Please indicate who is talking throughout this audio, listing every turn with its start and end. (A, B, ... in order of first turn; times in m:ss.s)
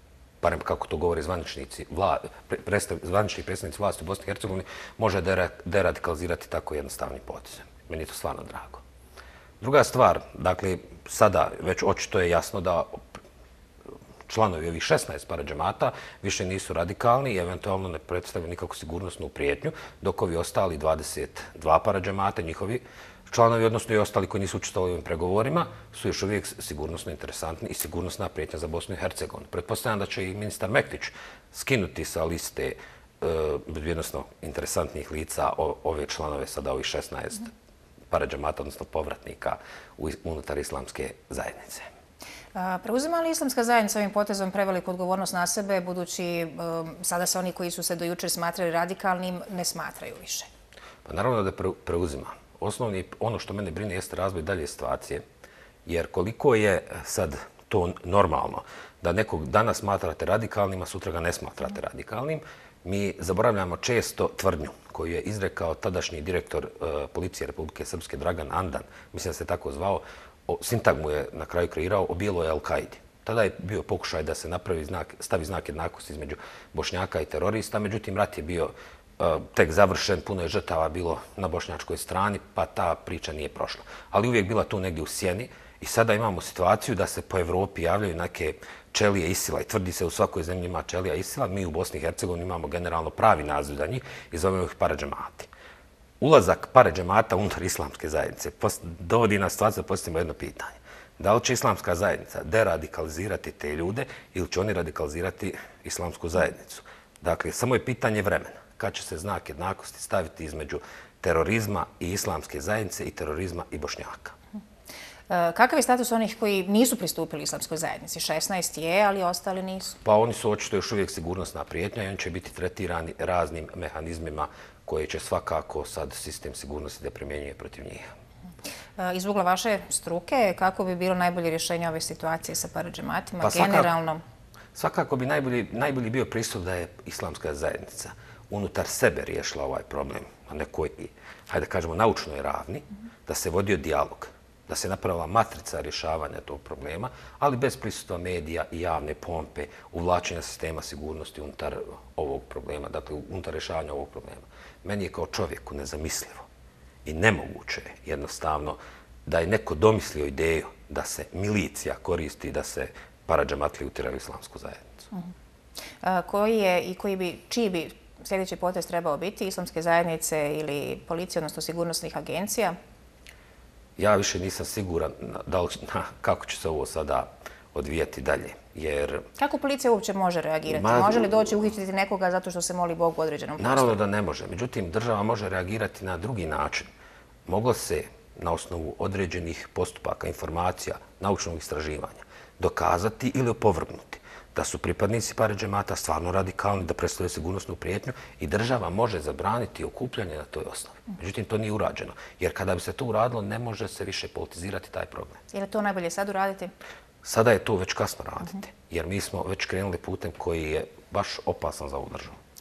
0:00.4-0:08.8 A
0:09.6-0:13.0 A
0:14.3-0:37.5 A
0:38.1-0:41.9 A
0:42.5-0:50.5 B
0:51.0-0:55.2 A
0:55.8-1:35.5 A
1:36.2-1:54.4 A
1:55.3-2:00.0 B
2:00.0-2:08.1 A
2:09.0-2:14.2 B
2:13.4-2:13.9 A
2:14.7-2:36.5 A
2:37.0-2:45.0 A
2:46.0-2:52.8 B
2:54.0-2:59.3 A
2:59.4-3:03.9 B
3:00.7-3:01.3 A
3:03.6-3:06.9 A
3:07.4-3:25.4 A
3:25.5-3:26.7 B
3:27.2-3:32.4 A